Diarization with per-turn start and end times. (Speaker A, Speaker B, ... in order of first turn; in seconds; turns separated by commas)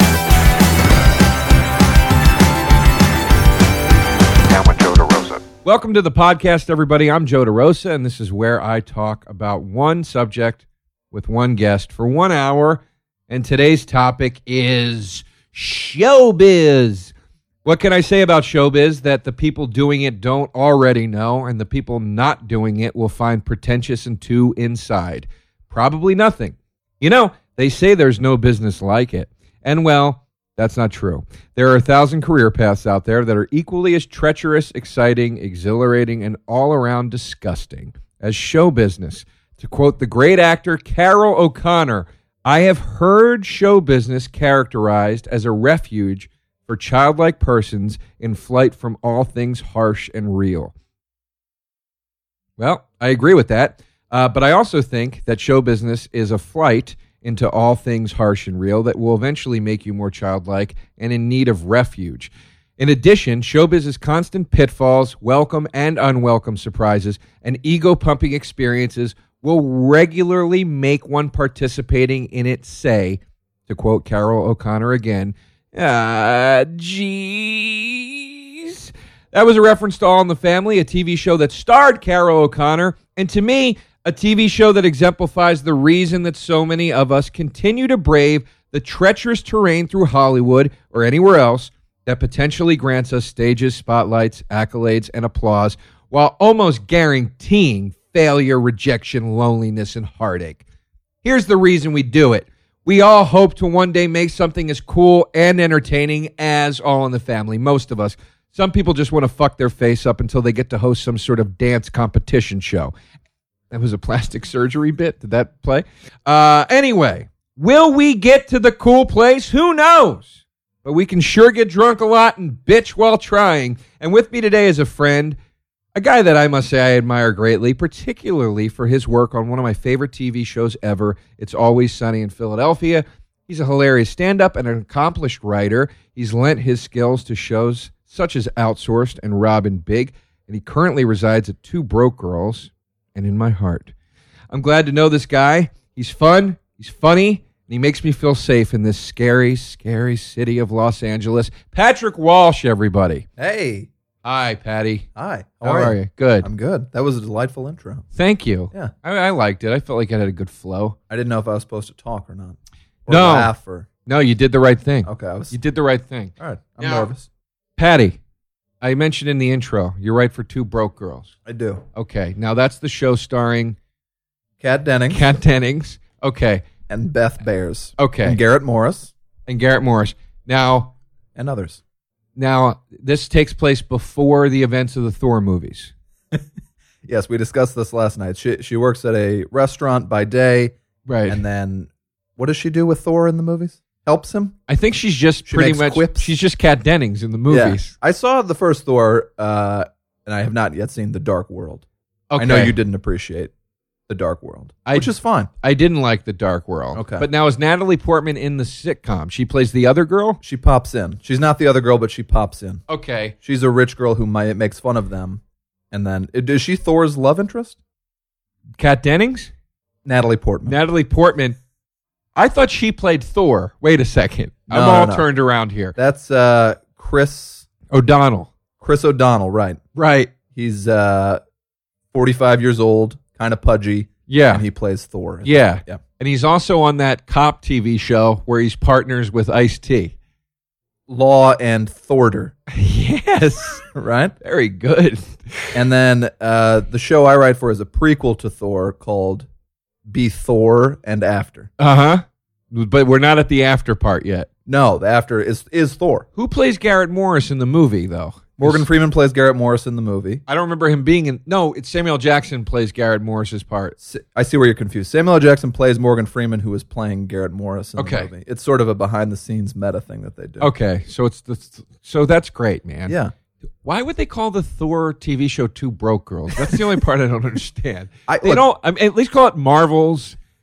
Speaker A: 4.4-17.1, Speaker A: 17.6-50.7, Speaker A: 52.6-100.6, Speaker A: 101.2-112.9, Speaker A: 113.7-125.4, Speaker A: 125.9-143.9, Speaker A: 144.5-153.2, Speaker B: 153.4-153.9, Speaker A: 154.2-155.1, Speaker B: 155.1-158.0, Speaker A: 155.6-156.5, Speaker A: 158.1-160.9, Speaker B: 161.1-163.9, Speaker A: 163.1-163.5, Speaker A: 164.1-167.1, Speaker B: 165.0-165.6, Speaker B: 166.4-167.3, Speaker A: 167.8-168.2, Speaker A: 168.8-171.3, Speaker B: 171.4-171.8, Speaker A: 171.9-173.8, Speaker B: 174.6-175.2, Speaker A: 175.1-176.6, Speaker B: 176.9-179.1, Speaker A: 178.0-178.4, Speaker A: 179.5-180.9, Speaker B: 181.3-181.8, Speaker A: 182.3-185.9, Speaker B: 187.1-190.7, Speaker A: 191.1-191.4, Speaker B: 191.3-194.6, Speaker A: 194.7-197.9, Speaker B: 195.5-196.3, Speaker B: 197.5-201.8, Speaker A: 202.3-202.8, Speaker B: 202.4-203.5, Speaker B: 204.1-205.5, Speaker A: 204.9-210.4, Speaker B: 206.9-207.2, Speaker B: 210.4-212.8, Speaker A: 212.9-213.3, Speaker B: 213.4-217.8, Speaker A: 218.8-219.5, Speaker B: 220.0-220.8, Speaker A: 220.7-221.6, Speaker A: 222.3-225.9, Speaker B: 224.7-225.3, Speaker B: 225.9-227.7, Speaker A: 227.9-228.5, Speaker B: 228.8-229.8, Speaker A: 229.9-230.3, Speaker B: 230.5-231.4, Speaker B: 232.1-236.0, Speaker A: 234.3-234.6, Speaker A: 235.4-240.1, Speaker B: 241.1-242.5, Speaker A: 242.7-243.8, Speaker B: 243.9-244.3, Speaker A: 244.4-245.8, Speaker B: 245.7-249.5, Speaker B: 250.1-251.7, Speaker A: 251.8-254.5, Speaker B: 254.7-256.2, Speaker A: 256.4-258.9, Speaker B: 258.6-260.4, Speaker A: 260.5-263.9, Speaker B: 264.0-270.7, Speaker A: 268.0-268.3, Speaker A: 270.6-273.2, Speaker B: 273.1-273.3, Speaker A: 273.8-280.4, Speaker B: 278.3-278.6